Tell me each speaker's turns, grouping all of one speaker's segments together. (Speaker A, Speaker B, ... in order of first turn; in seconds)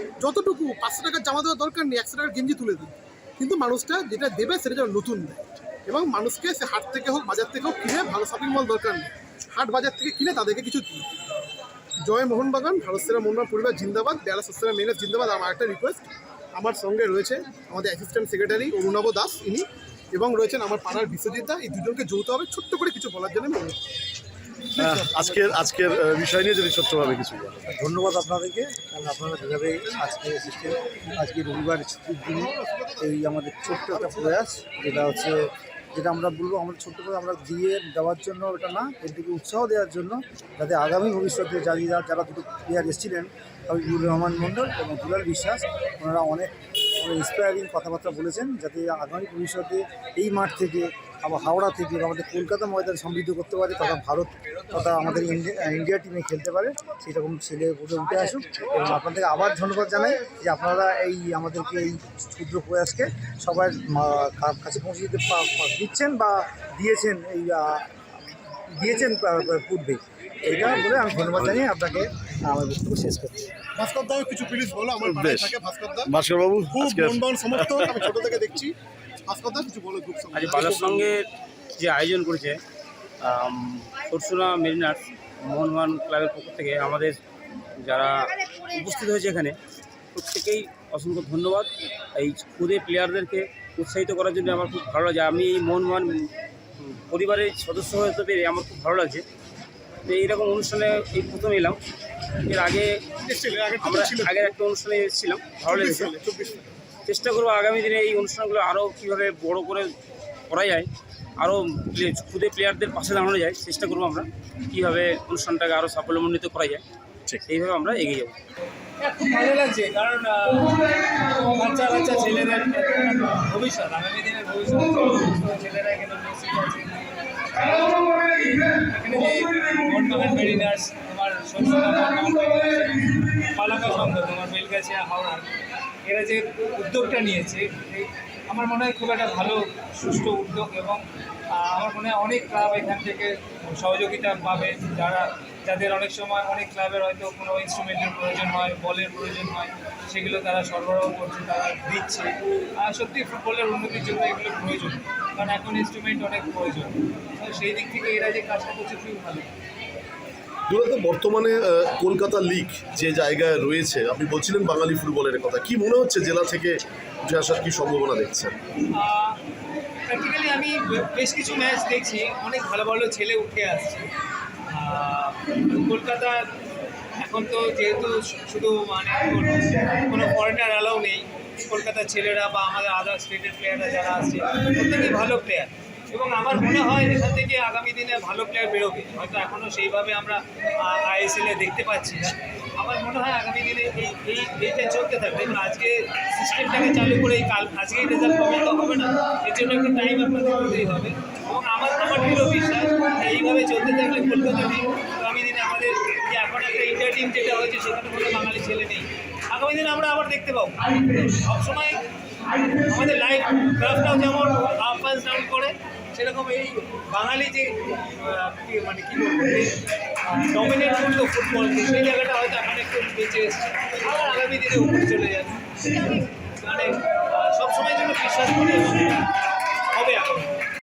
Speaker A: 0.2-11.1, 12.1-23.8, 24.8-25.5, 32.4-33.0, 73.8-76.1, 76.7-78.8, 79.3-81.2, 103.2-104.5, 105.7-106.7
Speaker B: 24.8-27.7, 70.5-71.6, 75.0-75.5, 76.1-78.1, 160.7-168.6
Speaker C: 27.7-35.4, 36.0-68.0, 68.8-73.5
Speaker D: 80.3-82.6, 83.2-87.2, 87.8-89.6, 90.1-99.2, 100.0-101.8, 102.4-103.0, 103.8-106.1, 107.1-109.9, 110.5-116.8, 117.5-118.4
Speaker E: 119.0-135.5, 136.1-141.0, 141.5-159.5, 168.9-169.4, 170.1-174.1, 174.7-176.5, 177.2-212.0, 212.5-229.3, 229.9-230.6